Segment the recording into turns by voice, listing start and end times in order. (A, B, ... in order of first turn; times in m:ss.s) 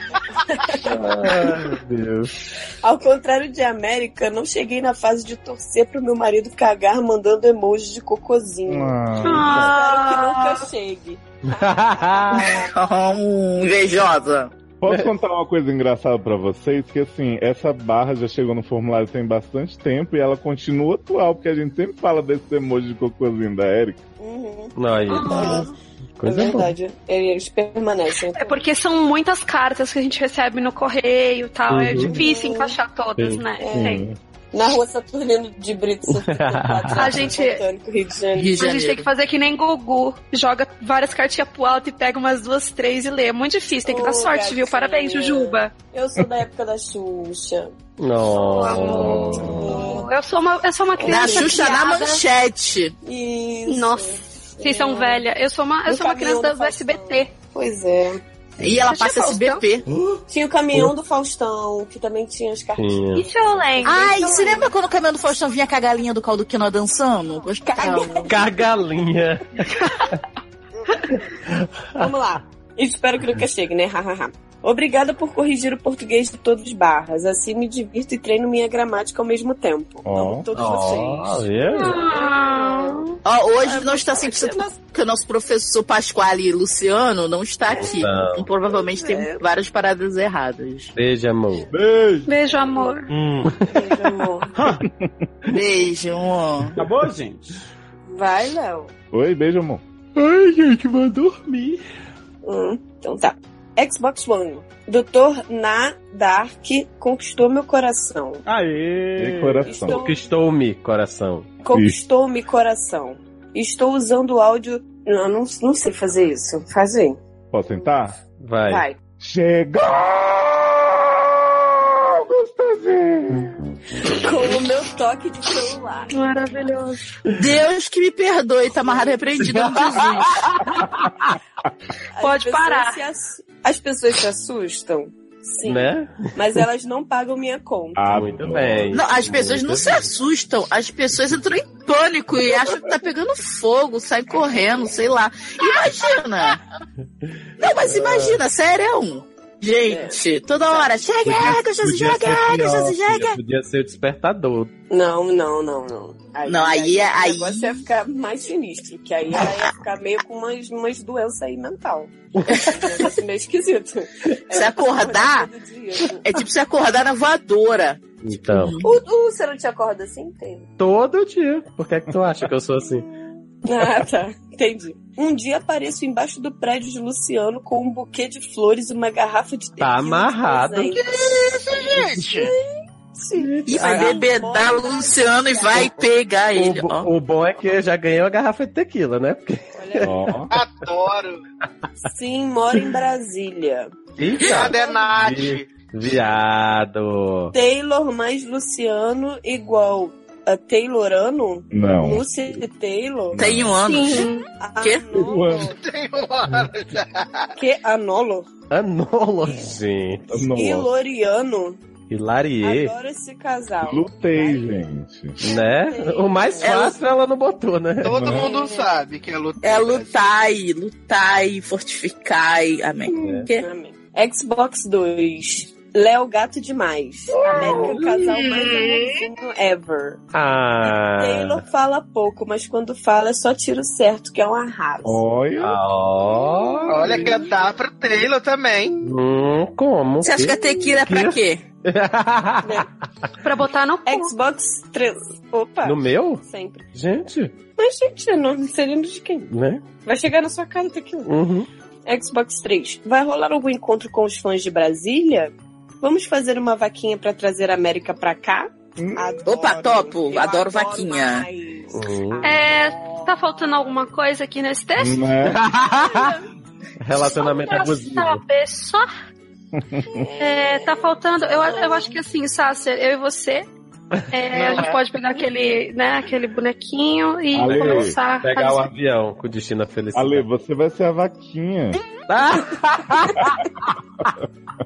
0:00.3-0:00.9 A
0:00.8-0:02.3 B
0:02.8-0:12.8 A
0:08.7-0:09.6 C
0:09.2-0:10.6 D
0:11.5-0:12.5 B
0:12.3-0:14.5 E
0:14.8-0:24.0 C
0:14.8-0:15.1 B
0:24.2-0:25.7 A
0:24.8-0:26.7 B
0:25.1-0:25.7 D
0:26.2-0:28.6 A
0:28.3-0:34.1 D
0:31.7-0:32.1 B
0:32.0-0:32.8 A
0:33.2-0:34.1 B
0:33.6-0:38.6 A
0:36.1-0:37.2 B
0:37.0-0:37.6 D
0:38.3-0:39.1 E
0:38.6-0:45.7 D
0:43.8-0:47.7 A
0:48.0-0:49.9 B
0:48.3-0:50.1 A
0:48.4-0:52.2 D
0:51.0-0:51.9 A
0:51.1-0:52.9 E
0:53.0-0:55.2 A
0:53.7-0:57.3 D
0:55.8-0:58.2 A
0:58.6-0:59.8 E
0:58.8-0:59.6 D
1:00.3-1:04.7 A
1:02.8-1:03.2 B
1:03.1-1:04.5 D
1:03.8-1:08.3 E
1:07.7-1:08.4 A
1:08.2-1:09.9 B
1:09.7-1:10.2 D
1:11.5-1:12.1 B
1:12.0-1:23.1 A
1:20.0-1:20.5 C
1:20.5-1:22.0 B
1:21.7-1:23.2 D
1:23.2-1:30.9 E
1:23.6-1:24.7 A
1:27.7-1:28.4 B
1:28.7-1:29.4 A
1:30.9-1:31.7 B
1:31.8-1:32.2 C
1:32.2-1:33.1 D
1:32.5-1:32.9 A
1:33.1-1:33.6 B
1:33.6-1:34.5 A
1:34.6-1:34.8 F
1:34.8-1:35.1 C
1:35.5-1:36.8 E
1:36.8-1:37.6 F
1:38.1-1:38.9 A
1:39.1-1:39.8 C
1:40.2-1:41.8 B
1:42.4-1:48.4 A
1:48.4-1:49.7 F
1:49.2-1:50.0 C
1:49.6-1:50.3 A
1:49.8-1:51.6 B
1:51.6-1:57.2 A
1:51.7-1:52.0 C
1:57.5-1:58.2 C
1:58.4-1:58.8 B
1:58.7-1:59.0 A
1:59.2-2:00.9 C
2:01.8-2:03.6 C
2:04.0-2:06.1 A
2:06.1-2:07.2 D
2:07.3-2:10.4 E
2:09.4-2:10.8 B
2:12.1-2:18.0 A
2:12.2-2:13.0 D
2:15.6-2:16.1 B
2:18.0-2:19.0 C
2:18.1-2:20.1 B
2:18.9-2:26.6 E
2:27.6-2:33.4 E
2:27.9-2:28.4 B
2:29.9-2:30.9 A
2:31.2-2:34.7 B
2:34.9-2:46.2 A
2:36.4-2:37.8 E
2:42.4-2:42.8 B
2:44.5-2:45.5 E
2:46.2-2:48.9 E
2:48.2-2:48.8 B
2:48.8-2:50.7 A
2:50.8-2:53.0 B
2:53.6-3:01.0 A
2:59.8-3:00.9 B
3:01.1-3:02.5 G
3:03.1-3:06.0 A
3:03.4-3:04.2 B
3:03.6-3:07.1 E
3:06.6-3:10.2 B
3:09.7-3:10.2 A
3:10.0-3:10.5 C
3:10.5-3:11.4 G
3:12.0-3:13.9 A
3:14.2-3:17.5 B
3:14.4-3:15.7 G
3:14.7-3:15.0 A
3:17.5-3:23.4 A
3:21.7-3:22.2 C
3:23.3-3:23.8 C
3:23.4-3:25.0 E
3:23.8-3:24.5 D
3:24.6-3:25.8 A
3:25.1-3:25.7 C
3:25.8-3:27.4 G
3:27.6-3:28.5 A
3:28.7-3:30.4 B
3:30.3-3:30.9 C
3:30.5-3:31.8 A
3:32.1-3:32.9 B
3:32.6-3:34.8 A
3:33.8-3:35.4 C
3:35.4-3:36.8 A
3:35.4-3:38.2 B
3:36.6-3:37.0 E
3:38.0-3:40.2 G
3:38.0-3:38.5 C
3:38.3-3:38.9 A
3:39.6-3:43.7 E
3:43.1-3:50.2 A
3:43.2-3:43.4 B
3:47.7-3:49.2 D
3:50.3-3:51.6 B
3:50.8-3:55.2 A
3:55.0-3:55.8 C
3:55.6-3:57.4 B
3:56.9-3:59.0 G
3:57.1-3:57.4 A
3:59.0-4:02.8 B
4:00.2-4:01.6 E
4:02.6-4:02.9 A
4:03.4-4:04.3 D
4:04.0-4:06.8 A
4:05.8-4:06.4 B
4:06.9-4:07.5 B
4:07.8-4:09.5 A
4:09.5-4:09.8 B
4:10.0-4:11.3 A
4:11.2-4:11.7 B
4:12.1-4:23.6 A
4:19.0-4:19.4 C
4:19.4-4:21.5 E
4:21.9-4:22.6 B
4:22.4-4:25.3 D
4:25.0-4:25.6 C
4:25.4-4:26.0 B
4:25.7-4:26.4 A
4:27.0-4:28.4 B
4:27.2-4:29.1 D
4:29.8-4:30.2 C
4:30.1-4:32.2 A
4:30.4-4:33.7 D
4:34.3-4:38.9 D
4:37.5-4:38.2 C
4:37.6-4:40.4 B
4:40.1-4:42.0 C
4:42.3-4:43.6 B